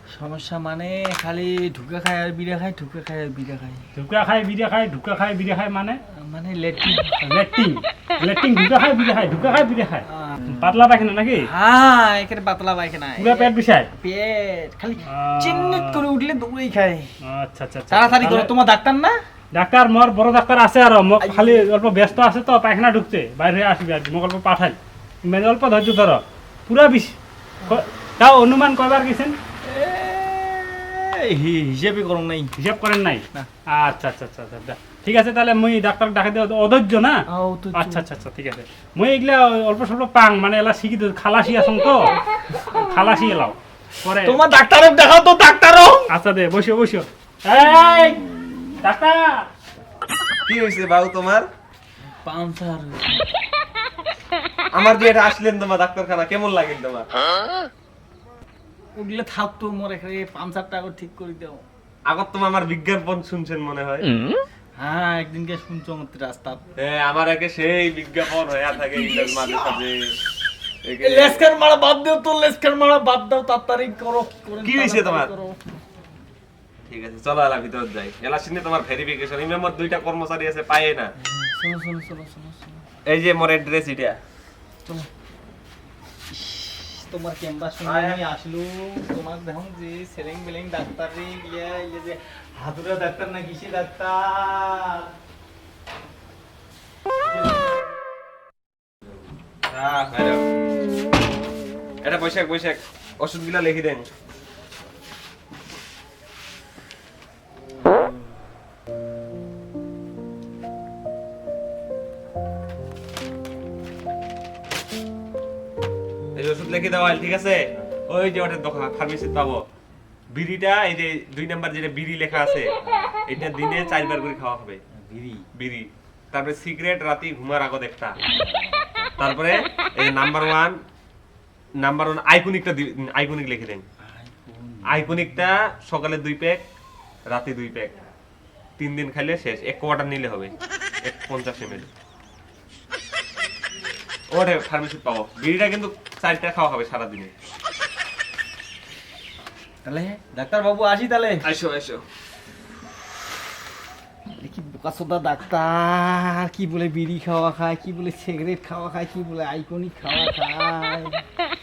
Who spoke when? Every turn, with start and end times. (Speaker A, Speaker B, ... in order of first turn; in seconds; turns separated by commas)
Speaker A: 0.1-3.8, Speaker B: 4.0-6.0, Speaker A: 6.1-7.1, Speaker B: 7.2-11.5, Speaker A: 10.1-10.4, Speaker A: 11.4-17.1, Speaker B: 13.2-13.9, Speaker B: 15.1-16.0, Speaker B: 17.2-18.5, Speaker A: 17.9-19.2, Speaker B: 19.5-29.3, Speaker A: 21.2-21.6, Speaker A: 29.6-32.5, Speaker B: 32.6-37.2, Speaker A: 37.3-38.0, Speaker B: 37.8-42.1, Speaker B: 42.7-44.4, Speaker A: 44.2-46.1, Speaker B: 46.1-48.3, Speaker B: 48.8-49.2, Speaker C: 50.4-51.5, Speaker A: 52.2-53.2, Speaker C: 54.7-57.1, Speaker A: 59.0-61.6, Speaker C: 62.1-64.1, Speaker A: 64.8-66.6, Speaker C: 66.8-70.0, Speaker A: 68.8-69.8, Speaker C: 70.8-71.4, Speaker A: 71.0-75.6, Speaker C: 74.6-75.3, Speaker C: 76.8-81.1, Speaker A: 81.2-82.8, Speaker C: 83.0-84.2, Speaker A: 86.3-95.1, Speaker C: 87.8-88.2, Speaker C: 99.7-100.4, Speaker C: 102.0-104.1, Speaker C: 116.3-119.6, Speaker C: 120.3-122.7, Speaker C: 123.3-124.8, Speaker A: 125.0-125.4, Speaker C: 125.5-128.2, Speaker A: 128.5-129.1, Speaker C: 129.2-130.8, Speaker C: 131.8-133.8, Speaker A: 134.0-135.5, Speaker C: 134.9-136.6, Speaker C: 137.3-137.9, Speaker C: 138.8-140.5, Speaker C: 141.1-141.9, Speaker C: 144.3-147.3, Speaker A: 149.8-151.4, Speaker C: 151.4-152.0, Speaker A: 154.4-161.2